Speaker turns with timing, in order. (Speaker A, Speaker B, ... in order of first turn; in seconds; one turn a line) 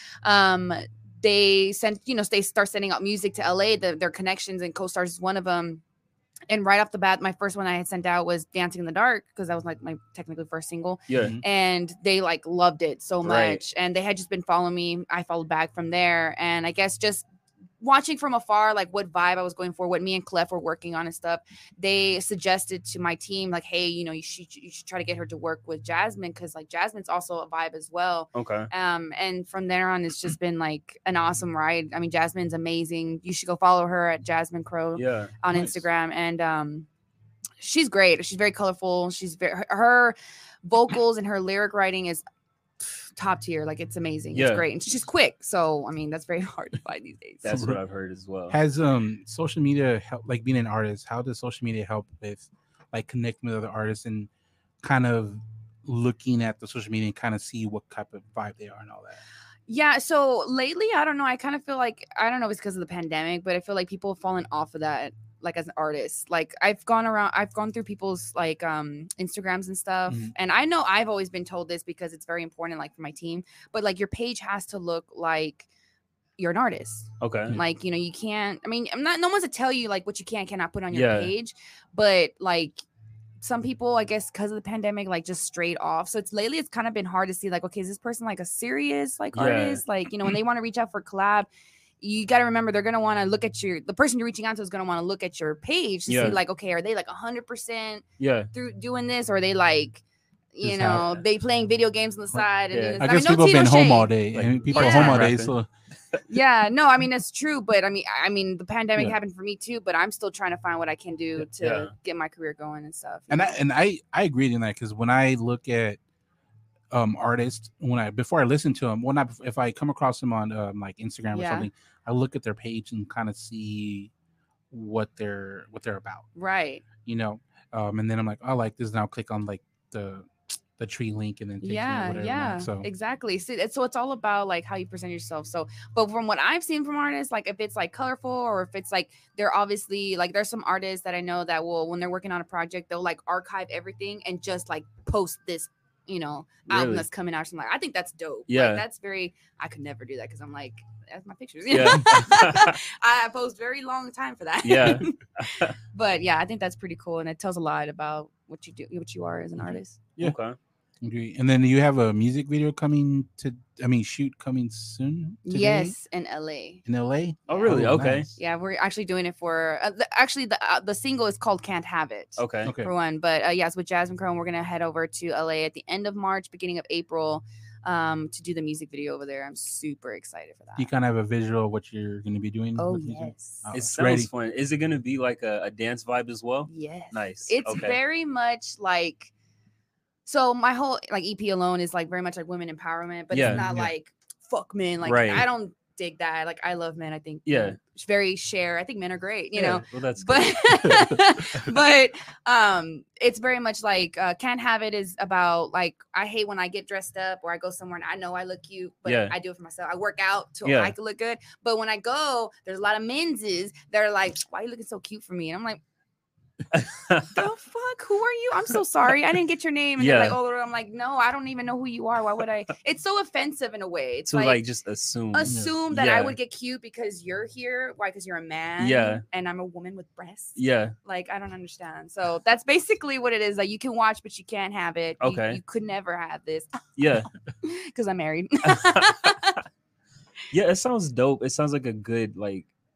Speaker A: 0.2-5.8
Speaker A: 6.5-17.3
Speaker B: 11.1-11.4
Speaker C: 11.2-11.4
Speaker B: 13.2-13.6
Speaker A: 17.8-36.9
Speaker B: 28.4-28.7
Speaker B: 35.0-35.3
Speaker C: 35.5-35.8
Speaker A: 37.6-42.2
Speaker A: 43.2-47.5
Speaker B: 44.3-44.6
Speaker B: 47.4-48.6
Speaker C: 47.5-47.8
Speaker C: 48.5-54.3
Speaker C: 54.8-59.2
Speaker A: 59.7-75.7
Speaker C: 70.1-70.3
Speaker A: 76.4-82.8
Speaker B: 77.2-77.6
Speaker B: 80.9-81.3
Speaker A: 83.4-91.5
Speaker B: 89.3-89.8
Speaker A: 92.0-100.0
Speaker B: 96.1-96.4
Speaker B: 98.2-98.5
Speaker A: 100.5-104.1
Speaker C: 100.6-101.2
Speaker B: 102.7-103.0
Speaker C: 103.0-105.7
Speaker B: 104.3-105.5
Speaker A: 104.7-105.3
Speaker A: 106.3-113.6
Speaker B: 111.4-111.9
Speaker C: 113.3-116.0
Speaker C: 116.9-124.1
Speaker A: 121.3-121.7
Speaker C: 124.7-126.3
Speaker A: 126.4-126.8
Speaker C: 127.0-132.9
Speaker A: 131.6-160.0
Speaker B: 146.7-147.1
Speaker B: 148.5-148.8
Speaker B: 151.7-152.8
Speaker B: 154.6-155.8
Speaker B: 160.2-160.6
Speaker C: 161.0-166.0
Speaker A: 165.4-166.8
Speaker C: 166.9-168.3
Speaker A: 167.5-167.8
Speaker B: 167.5-168.3
Speaker A: 168.4-180.9
Speaker B: 172.4-172.7
Speaker C: 172.7-172.9
Speaker C: 180.8-184.3
Speaker A: 182.8-183.7
Speaker B: 183.7-188.0
Speaker A: 186.7-189.3
Speaker A: 190.3-215.8
Speaker B: 193.3-193.7
Speaker C: 193.4-193.9
Speaker B: 195.1-195.5
Speaker B: 197.5-197.8
Speaker B: 199.6-201.1
Speaker B: 209.1-209.3
Speaker B: 210.7-210.9
Speaker B: 216.7-217.4
Speaker A: 217.3-224.6
Speaker B: 220.0-220.4
Speaker B: 224.3-226.4
Speaker A: 225.3-236.7
Speaker C: 225.5-225.7
Speaker B: 228.8-229.2
Speaker B: 230.6-230.9
Speaker B: 235.2-235.6
Speaker B: 237.0-237.3
Speaker A: 237.6-239.6
Speaker B: 238.7-239.4
Speaker B: 240.5-242.7